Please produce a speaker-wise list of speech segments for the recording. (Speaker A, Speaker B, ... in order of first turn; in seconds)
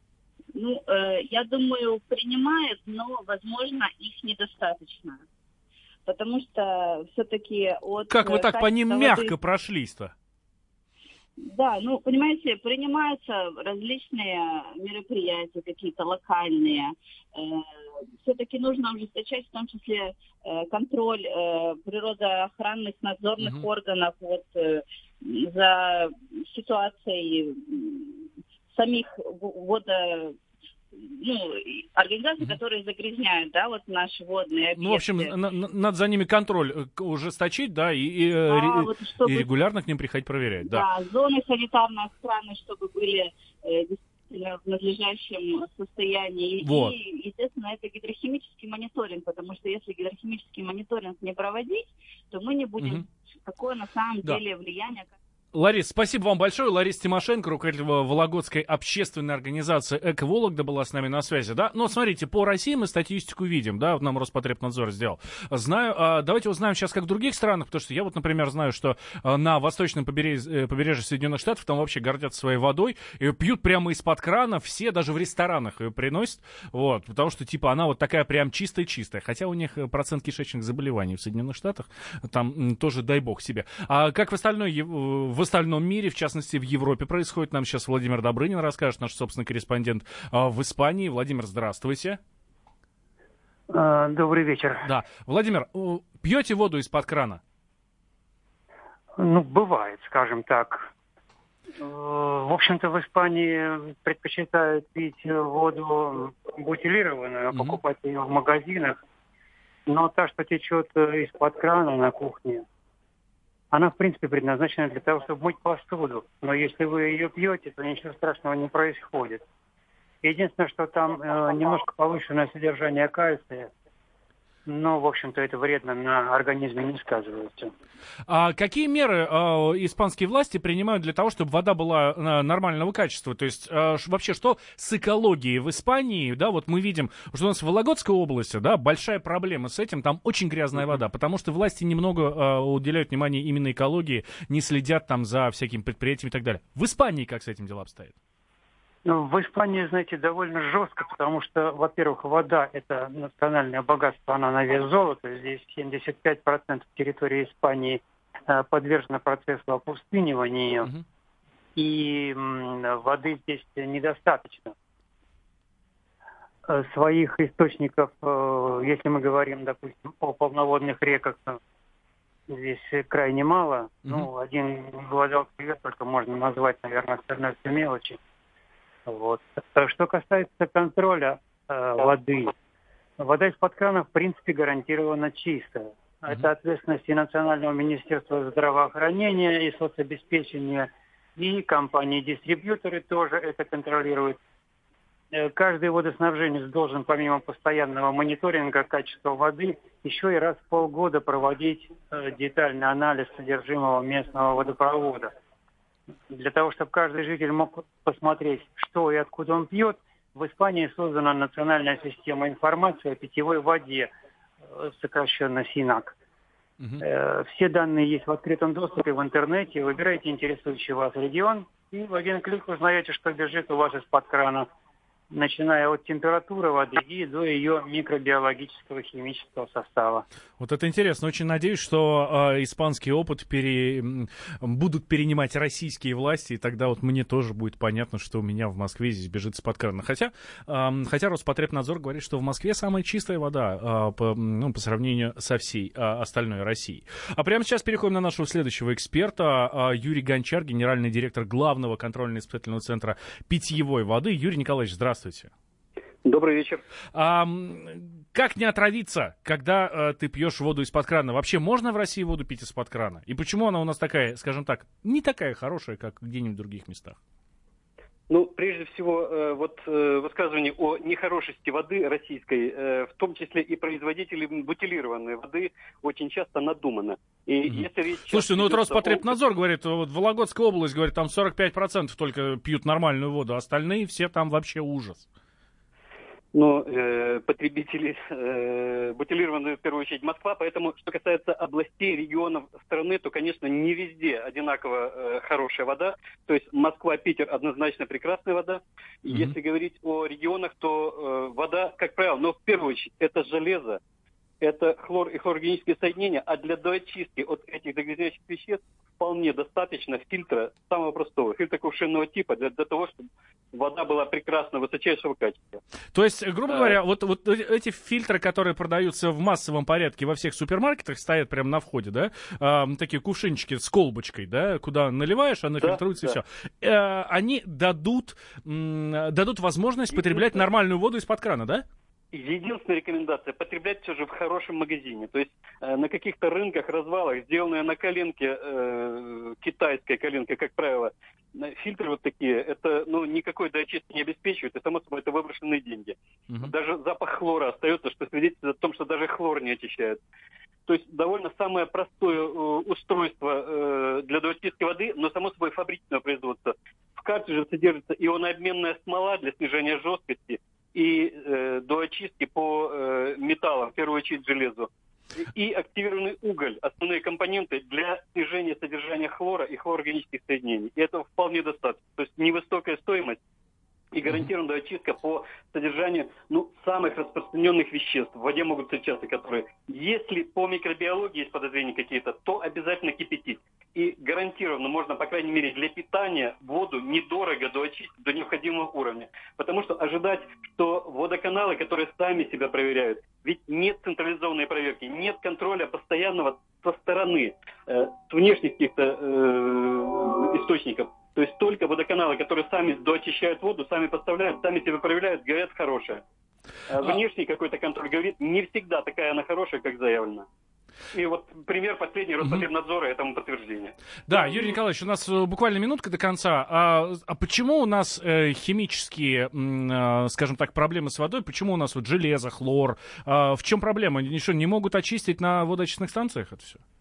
Speaker A: 0.5-5.2, 6.0-9.3, 11.4-17.7, 18.2-30.4, 30.9-35.3, 38.5-39.5, 40.6-55.1
Speaker B: 8.1-10.1, 23.4-23.6, 34.8-40.9, 46.6-46.9, 55.5-92.2, 94.8-97.4, 107.5-107.8, 128.3-148.1, 230.6-255.5, 257.1-267.2, 277.7-285.2, 299.3-299.5, 316.1-331.9, 412.4-412.7, 414.3-426.8
Speaker C: 93.7-94.8, 99.2-100.9, 101.8-109.0, 109.9-112.6, 113.7-119.4, 120.2-123.7, 124.7-127.7, 149.0-160.9, 161.8-164.7, 166.7-171.6, 172.5-178.2, 179.1-182.5, 183.2-194.4, 195.3-205.3, 206.3-214.1, 214.7-216.1, 217.0-224.7, 225.3-230.2
Speaker D: 256.2-256.8, 268.3-279.3, 286.5-304.0, 304.6-315.8, 316.7-317.0, 325.8-326.4, 330.1-330.6, 332.3-350.2, 350.9-373.4, 374.1-406.2, 406.9-410.5, 411.1-413.9